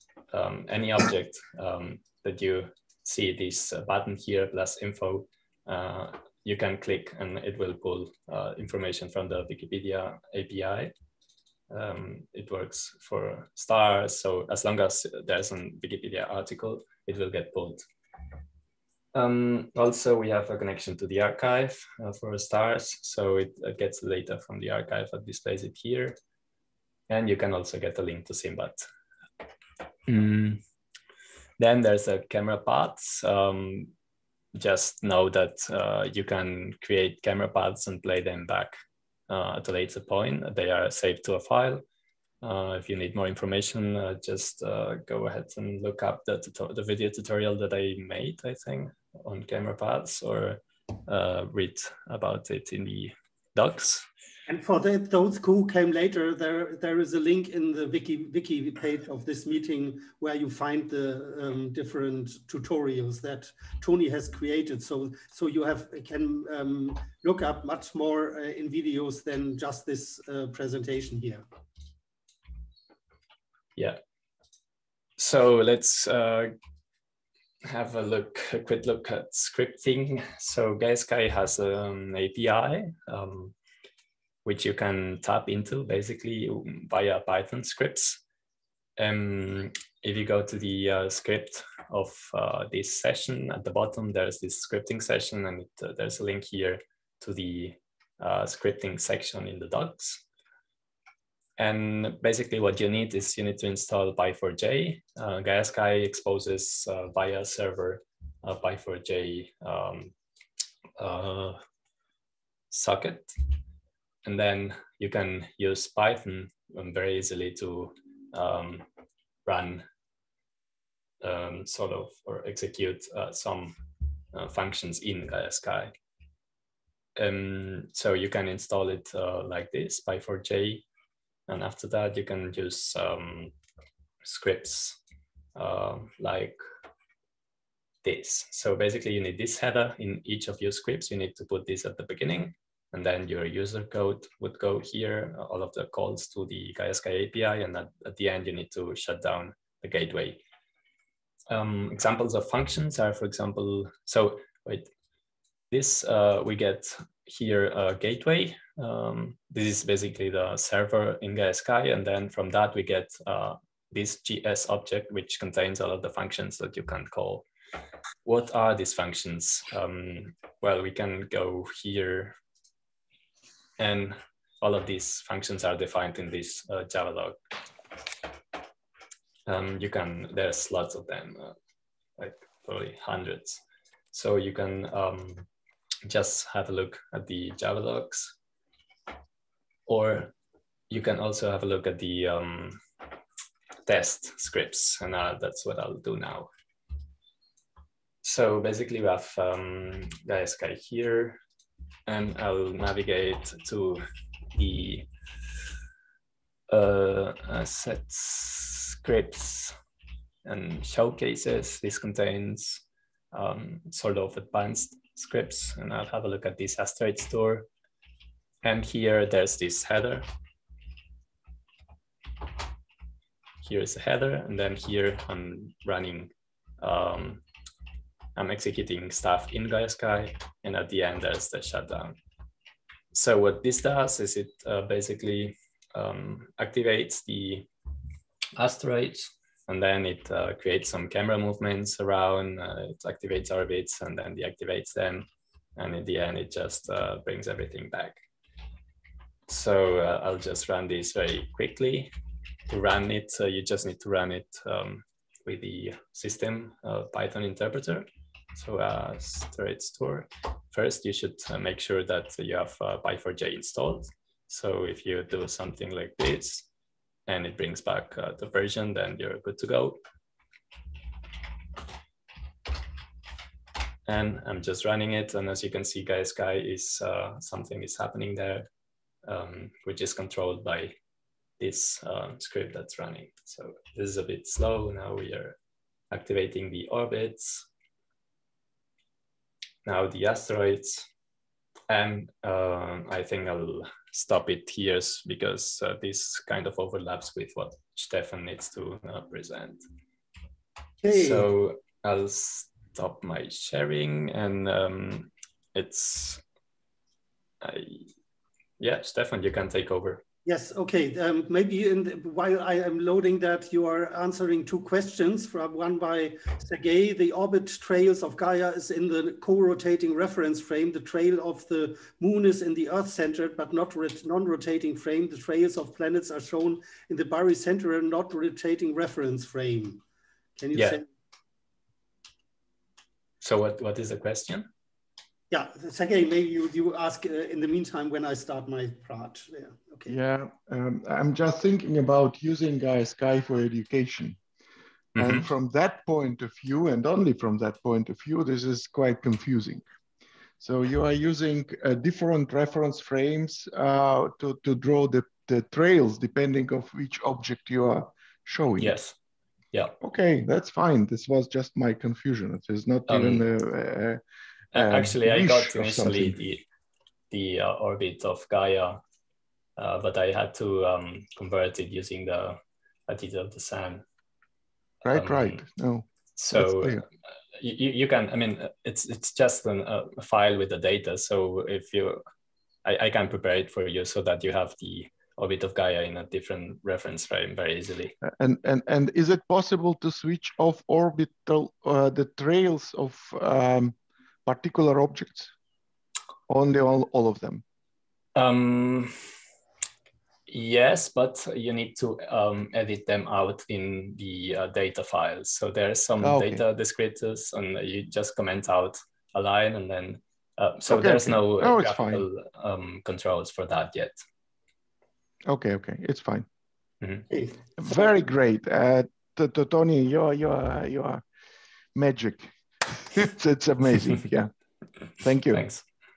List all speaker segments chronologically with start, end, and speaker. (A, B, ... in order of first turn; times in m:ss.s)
0:00.3-0:10.9 A
0:11.7-0:17.8 A
0:19.1-0:26.2 A
0:27.1-0:28.9 A
0:30.1-0:30.6 A
0:31.6-0:33.9 A
0:34.5-0:38.8 A
0:39.3-0:41.8 A
0:42.4-0:54.1 A
0:54.5-1:11.4 B
1:15.2-1:16.5 A
1:17.6-1:23.5 A
1:24.4-1:28.2 A
1:29.0-1:40.2 A
1:41.6-1:50.1 A
1:51.0-1:51.6 A
1:52.7-1:53.4 A
1:54.2-1:58.8 A
1:59.4-1:59.9 A
2:01.2-2:03.8 A
2:04.3-2:05.9 A
2:07.2-2:10.8 A
2:11.5-2:13.5 A
2:14.2-2:15.0 A
2:15.6-2:16.6 A
2:18.0-2:30.4 A
2:31.5-2:34.9 A
2:35.7-2:47.5 A
2:48.2-2:52.4 A
2:53.8-2:57.4 A
2:59.5-3:01.6 A
3:02.2-3:03.6 A
3:04.1-3:05.5 A
3:06.1-3:08.4 A
3:09.9-3:10.3 A
3:10.9-3:12.8 A
3:13.9-3:16.5 A
3:18.2-3:21.4 A
3:22.1-3:25.1 A
3:26.7-3:29.8 A
3:30.4-3:37.7 A
3:38.6-3:40.3 A
3:43.6-3:47.4 A
3:48.4-3:52.2 A
3:53.1-3:57.7 A
3:58.6-4:08.2 A
4:09.5-4:12.1 A
4:12.7-4:26.7 A
4:27.3-4:30.0 A
4:34.1-4:38.7 A
4:39.2-4:41.0 A
4:41.6-4:45.6 A
4:46.1-4:47.7 A
4:49.8-4:51.1 A
4:51.9-4:59.8 A
5:01.0-5:01.5 B
5:01.1-5:06.4 A
5:07.6-5:08.1 A
5:08.8-5:10.2 A
5:10.5-5:30.0 B
5:30.6-5:31.0 B
5:30.7-5:31.0 A
5:33.4-5:34.7 A
5:35.5-5:40.1 B
5:40.1-5:44.4 C
5:45.2-5:45.5 A
5:45.2-5:49.8 C
5:50.6-5:59.0 C
5:58.8-5:59.2 A
6:00.0-6:04.2 C
6:03.1-6:03.4 A
6:04.7-6:06.4 C
6:04.7-6:06.6 A
6:07.3-6:09.0 A
6:09.8-6:14.0 A
6:15.0-6:17.0 C
6:15.1-6:15.6 A
6:16.4-6:22.2 A
6:22.8-6:28.1 A
6:28.2-6:35.5 C
6:36.5-6:37.6 C
6:38.4-6:39.2 A
6:40.5-6:54.2 A
6:46.2-6:46.6 C
6:50.9-6:52.2 C
6:55.5-6:56.5 C
6:57.3-6:58.0 B
6:57.8-7:01.2 C
7:02.0-7:04.5 C
7:05.2-7:05.6 C
7:05.5-7:05.8 A